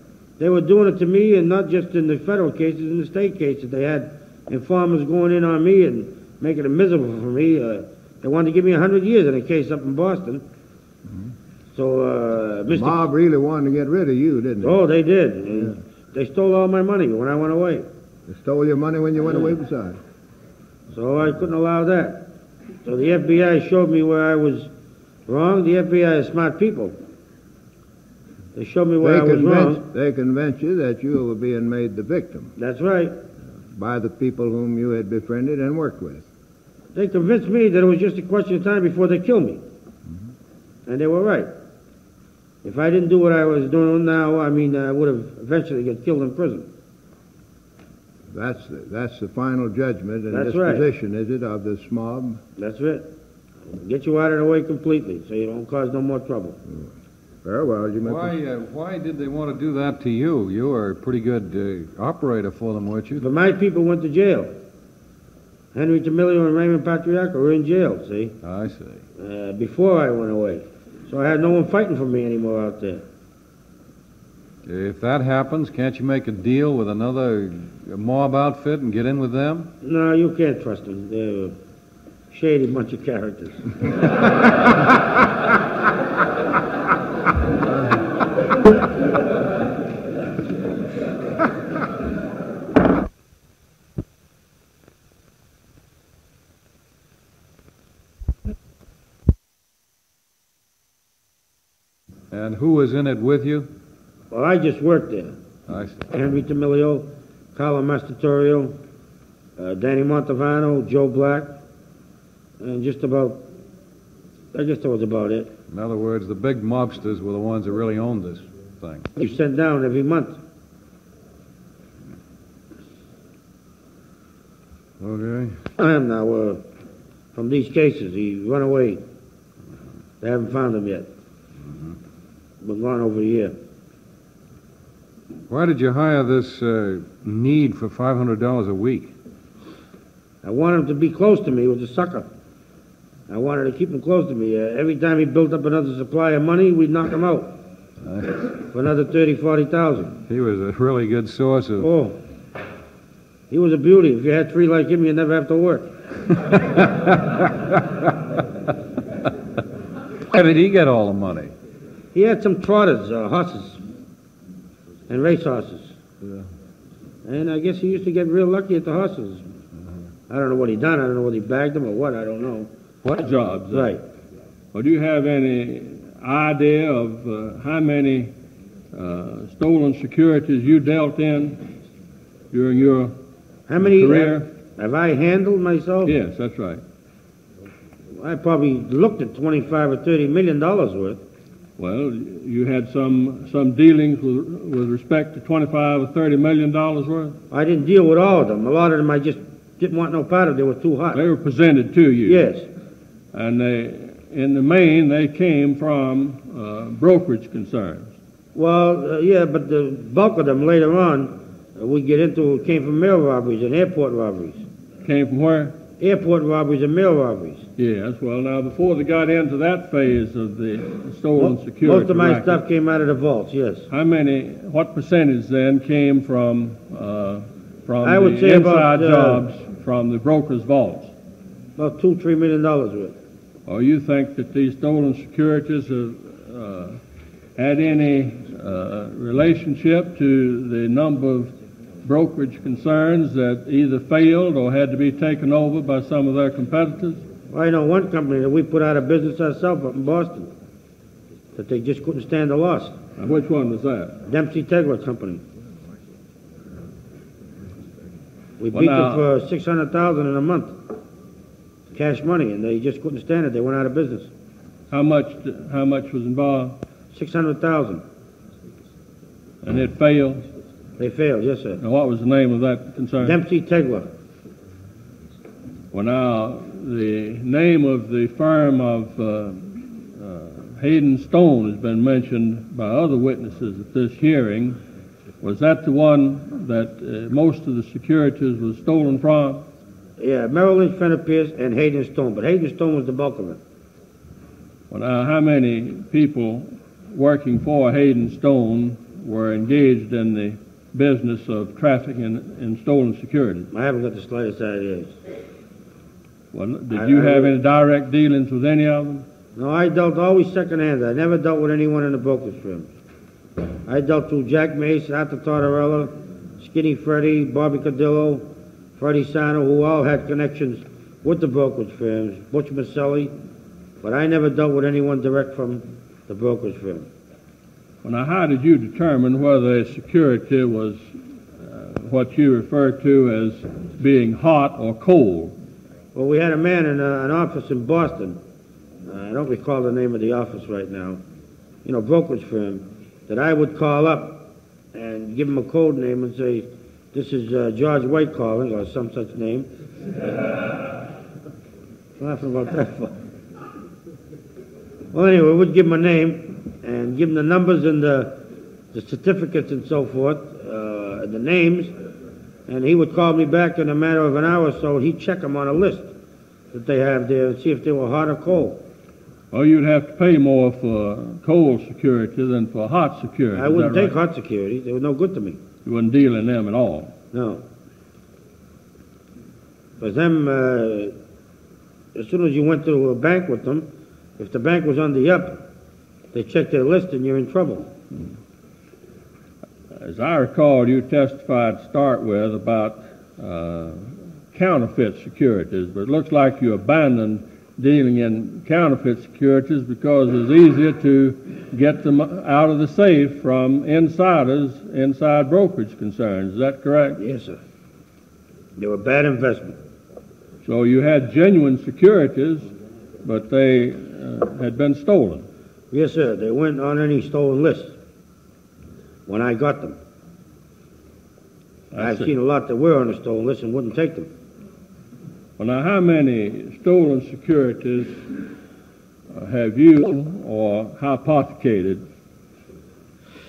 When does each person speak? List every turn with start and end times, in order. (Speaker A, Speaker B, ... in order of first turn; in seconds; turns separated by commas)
Speaker A: 0.4-10.4, Speaker A: 11.7-13.0, Speaker B: 12.7-14.8, Speaker A: 14.6-17.9, Speaker B: 18.3-20.0, Speaker A: 20.9-24.7, Speaker A: 25.3-26.9, Speaker A: 28.5-29.8, Speaker B: 29.0-32.5, Speaker A: 32.5-33.1, Speaker B: 33.7-36.2, Speaker A: 36.9-39.6, Speaker A: 40.9-41.5, Speaker A: 42.6-46.7, Speaker B: 48.3-52.4, Speaker A: 50.3-50.9, Speaker A: 52.6-53.1, Speaker A: 53.7-56.6, Speaker B: 57.4-58.4, Speaker C: 58.0-63.2, Speaker A: 63.2-64.5, Speaker A: 65.7-68.3, Speaker C: 68.4-69.0, Speaker A: 69.2-73.0, Speaker C: 74.7-79.7, Speaker A: 79.8-81.5, Speaker A: 82.3-83.7, Speaker C: 102.3-103.7, Speaker A: 104.3-105.3, Speaker C: 105.7-106.1, Speaker A: 106.1-108.8, Speaker A: 109.6-111.5, Speaker A: 112.6-113.5, Speaker A: 114.5-115.5, Speaker C: 115.7-119.1, Speaker A: 119.2-120.4, Speaker C: 125.0-125.6, Speaker A: 125.8-126.6, Speaker A: 127.3-129.0, Speaker A: 130.2-131.1, Speaker A: 132.6-133.5, Speaker C: 135.5-139.1, Speaker A: 140.4-142.3, Speaker A: 143.3-147.6, Speaker C: 148.0-148.4, Speaker A: 148.7-150.2, Speaker C: 150.3-151.9, Speaker A: 151.8-152.2, Speaker A: 153.5-155.9, Speaker C: 156.5-157.8, Speaker C: 160.3-161.5, Speaker A: 162.1-163.8, Speaker A: 165.1-166.0, Speaker A: 167.2-169.4, Speaker A: 170.3-172.7, Speaker D: 173.1-173.9, Speaker A: 173.7-174.0, Speaker D: 174.7-178.3, Speaker D: 178.9-181.7, Speaker D: 182.5-183.1, Speaker A: 183.7-186.1, Speaker D: 183.8-184.4, Speaker D: 186.0-186.8, Speaker A: 188.1-191.2, Speaker D: 191.8-197.4, Speaker A: 197.5-201.2, Speaker D: 201.1-202.5, Speaker A: 202.2-202.7, Speaker D: 203.3-208.1, Speaker A: 208.5-214.7, Speaker D: 215.0-215.8, Speaker A: 216.0-217.7, Speaker D: 217.8-222.6, Speaker A: 221.4-223.9, Speaker D: 223.9-231.1, Speaker A: 228.0-229.5, Speaker A: 231.8-233.2, Speaker D: 233.7-237.0, Speaker D: 237.6-247.2, Speaker A: 247.5-250.5, Speaker A: 251.6-253.0, Speaker D: 253.2-254.2, Speaker A: 254.2-255.4, Speaker A: 258.6-260.8, Speaker D: 258.7-259.3, Speaker A: 261.9-264.3, Speaker D: 264.9-266.8, Speaker A: 267.1-268.0, Speaker D: 269.6-270.4, Speaker A: 271.0-271.8, Speaker D: 271.8-273.4, Speaker A: 273.2-274.1, Speaker D: 275.9-284.8, Speaker D: 285.4-289.6, Speaker A: 290.2-293.6, Speaker D: 294.9-303.7, Speaker A: 303.7-305.2, Speaker D: 306.5-309.2, Speaker A: 306.9-307.5, Speaker A: 309.6-312.9, Speaker A: 313.9-323.3, Speaker A: 324.0-327.1, Speaker D: 328.0-331.0, Speaker D: 331.6-335.6, Speaker A: 336.1-338.4, Speaker A: 339.1-341.2, Speaker A: 341.8-349.7, Speaker A: 352.2-353.1, Speaker A: 355.1-358.4, Speaker A: 358.9-361.9, Speaker A: 362.7-366.1, Speaker A: 366.7-368.8, Speaker D: 369.5-374.1, Speaker A: 373.6-375.6, Speaker D: 375.8-377.1, Speaker A: 377.3-377.6, Speaker A: 380.0-381.1, Speaker A: 382.1-383.9, Speaker A: 384.4-385.6, Speaker A: 386.3-387.9, Speaker D: 389.9-407.2, Speaker A: 407.2-407.6, Speaker A: 408.8-409.8, Speaker D: 410.6-412.7, Speaker D: 413.2-415.4, Speaker A: 415.9-417.9, Speaker A: 419.3-420.0, Speaker D: 421.9-422.3, Speaker A: 422.0-424.3, Speaker D: 425.6-428.4, Speaker D: 429.3-432.0